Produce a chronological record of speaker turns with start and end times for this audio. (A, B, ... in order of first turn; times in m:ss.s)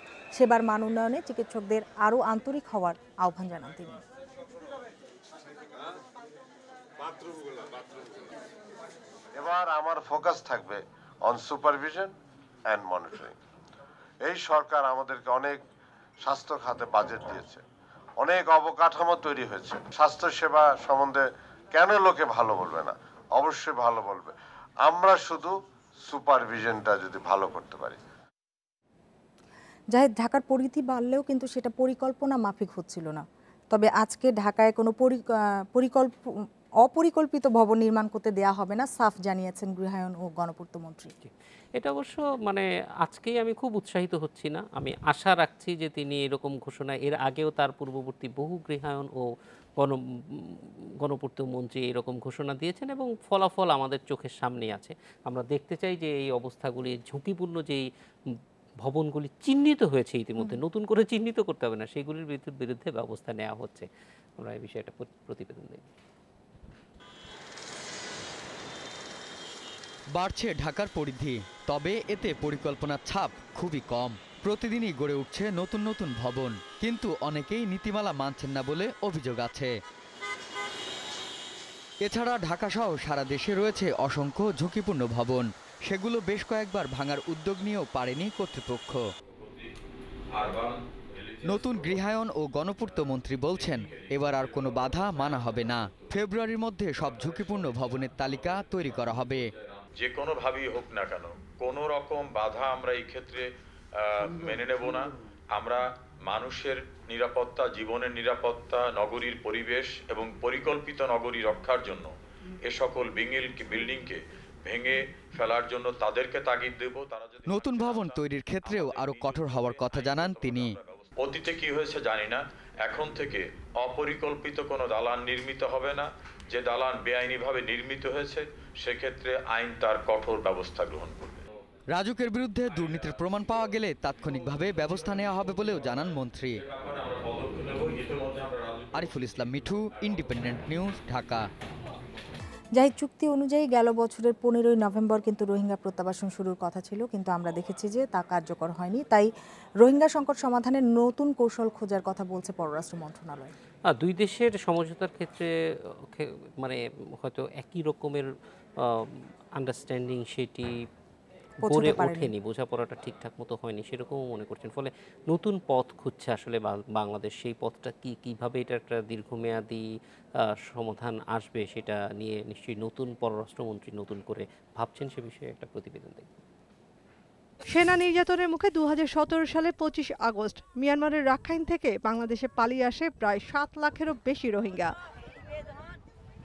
0:00.4-0:04.0 A
0:09.4-0:12.1 B
0:12.7-0:13.3 B
0:14.2-0:15.6 B
0:16.2-0:17.6 B
0:18.2-0:24.3 B
0:24.8-0:25.6 B
0:26.1-0:28.0 B
0:29.9-0:36.3 A
0:36.8-0:41.1 A
0:41.2-0:49.3 C
0:49.8-1:03.9 C
1:04.4-1:05.9 C
1:10.2-1:19.8 D
1:22.0-1:29.1 D
1:29.4-1:29.7 E
1:30.3-1:32.0 E
1:31.4-1:39.5 D
1:33.5-1:35.7 E
1:37.1-1:39.2 E
1:40.0-1:52.1 E
1:52.7-2:11.5 E
1:57.5-2:00.8 D
2:11.9-2:16.6 D
2:16.6-2:18.9 E
2:18.9-2:21.5 D
2:22.8-2:33.5 A
2:33.9-2:35.5 C
2:36.0-2:38.3 C
2:38.8-2:40.7 C
2:41.6-2:42.3 A
2:41.7-2:56.4 C
2:57.7-3:04.9 F